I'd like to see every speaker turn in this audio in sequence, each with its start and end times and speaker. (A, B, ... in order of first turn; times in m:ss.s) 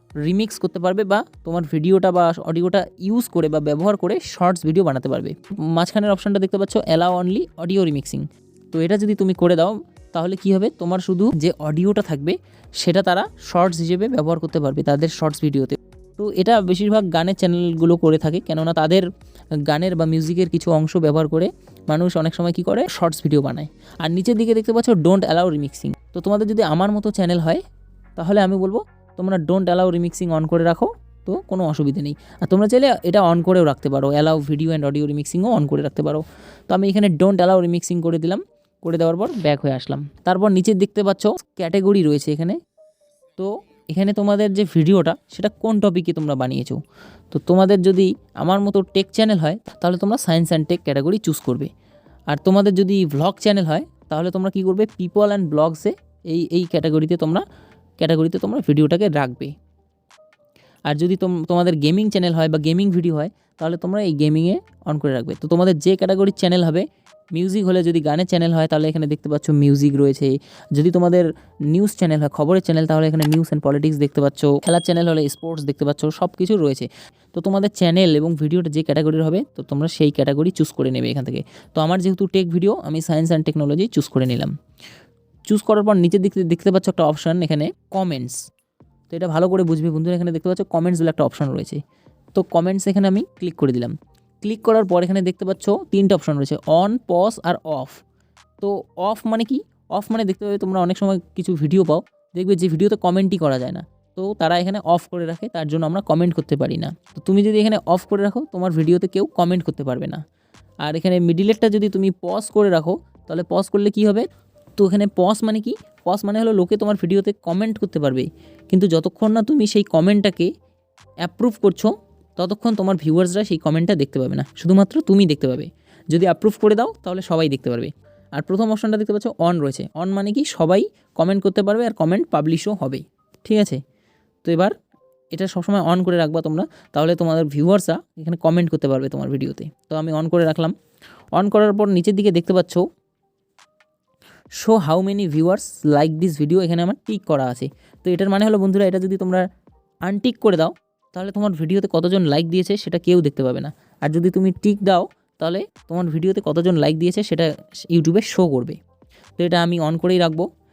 0:00.2-0:19.1 A
0:19.7-0:27.6 A
0:28.2-0:42.6 A
0:43.4-0:46.8 A
0:47.3-0:51.7 A
0:52.3-0:57.4 A
0:58.0-0:59.5 A
1:00.9-1:24.5 A
1:25.5-1:28.4 A
1:29.1-1:31.8 A
1:32.3-1:38.0 A
1:38.6-1:50.2 A
1:50.8-2:00.5 A
2:01.2-2:13.8 A
2:14.4-2:14.7 A
2:15.3-2:20.7 A
2:21.4-2:22.8 A
2:24.6-2:29.4 A
2:30.0-2:38.8 A
2:39.4-2:40.4 A